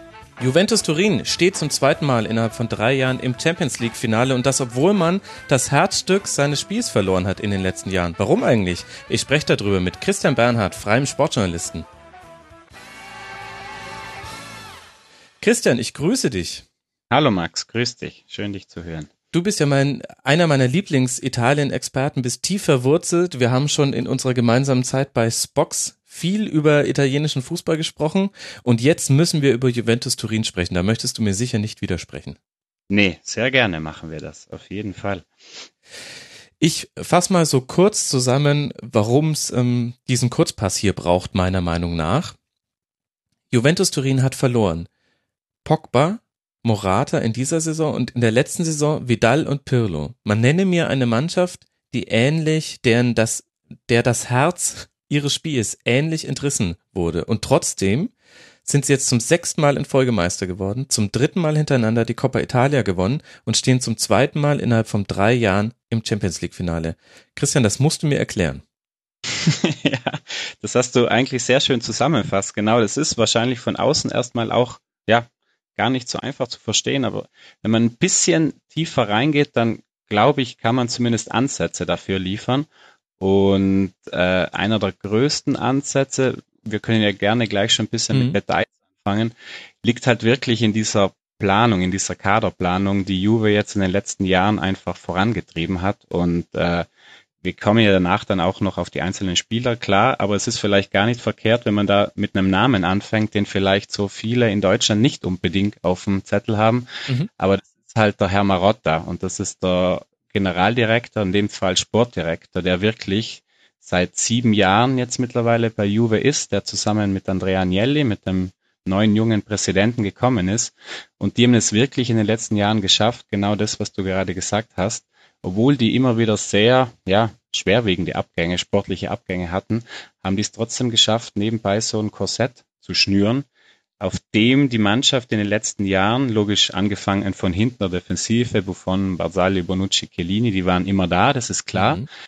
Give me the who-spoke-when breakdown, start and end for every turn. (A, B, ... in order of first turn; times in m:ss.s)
0:00.4-0:11.9 A
0:15.4-0:16.6 A
0:17.1-0:19.1 B
0:19.3-0:32.4 A
0:32.9-0:35.3 B
0:36.6-0:42.4 A
0:43.5-0:44.9 A
0:45.6-0:58.1 A
0:58.6-1:08.6 A
1:09.3-1:22.7 B
1:23.2-1:36.9 B
1:28.1-1:28.4 A
1:37.4-2:13.5 B
2:14.0-2:22.1 B
2:21.8-2:22.1 A